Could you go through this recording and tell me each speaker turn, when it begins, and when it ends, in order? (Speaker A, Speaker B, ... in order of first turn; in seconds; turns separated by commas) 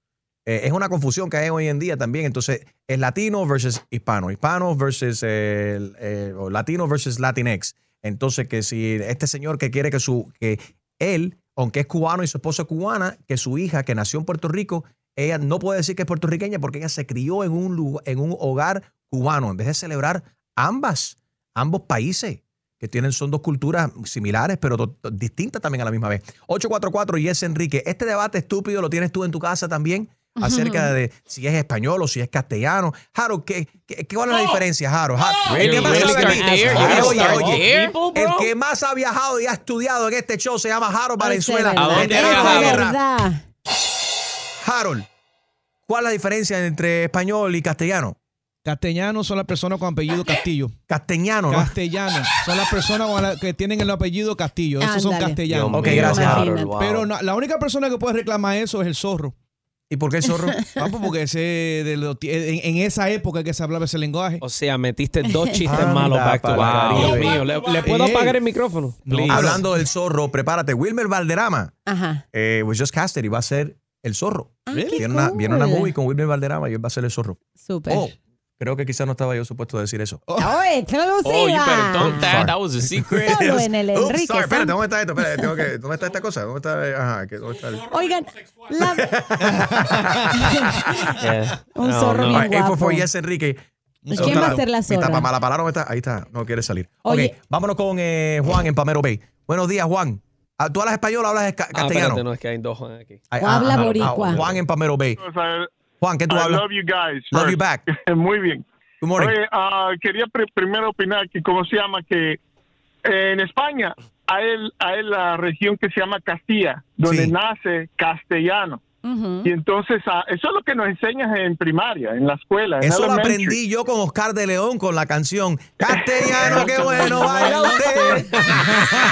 Speaker A: 0.5-43.0, Speaker B: 30.4-30.9, Speaker C: 35.5-38.5, Speaker D: 35.6-37.6, Speaker B: 41.2-43.4, Speaker C: 41.8-42.8, Speaker A: 44.6-45.0, Speaker A: 45.9-48.2, Speaker D: 48.6-50.7, Speaker A: 50.9-51.7, Speaker D: 51.5-59.3, Speaker B: 54.8-55.4, Speaker C: 55.5-57.1, Speaker A: 55.7-56.5, Speaker B: 55.9-56.8, Speaker A: 59.9-60.6, Speaker D: 60.8-64.4, Speaker C: 64.4-69.6, Speaker B: 65.2-65.8, Speaker A: 65.7-67.4, Speaker D: 67.8-68.4, Speaker D: 69.0-69.6, Speaker A: 69.3-71.7, Speaker B: 71.9-72.2, Speaker A: 72.3-80.2, Speaker B: 74.7-75.9, Speaker D: 74.7-75.1, Speaker B: 77.6-78.1, Speaker D: 80.3-80.5, Speaker B: 80.4-82.4, Speaker C: 81.2-83.3, Speaker A: 82.1-87.9, Speaker B: 83.2-84.7, Speaker B: 87.9-89.1, Speaker A: 88.8-89.6, Speaker B: 90.4-90.8, Speaker C: 91.2-92.5, Speaker B: 91.7-93.1, Speaker A: 92.3-93.6, Speaker D: 94.1-94.6, Speaker B: 94.1-95.3, Speaker A: 94.1-102.2, Speaker B: 97.0-97.3, Speaker C: 101.7-103.2, Speaker A: 103.3-105.2, Speaker B: 103.4-104.5, Speaker E: 105.2-105.7, Speaker A: 106.0-106.6, Speaker E: 106.3-108.6, Speaker A: 107.3-107.8, Speaker A: 109.0-109.4, Speaker E: 109.2-112.4, Speaker E: 113.1-118.8, Speaker A: 117.0-117.3, Speaker B: 119.0-119.5, Speaker E: 119.4-123.6, Speaker A: 122.8-128.3, Speaker D: 126.5-127.2, Speaker B: 126.7-128.3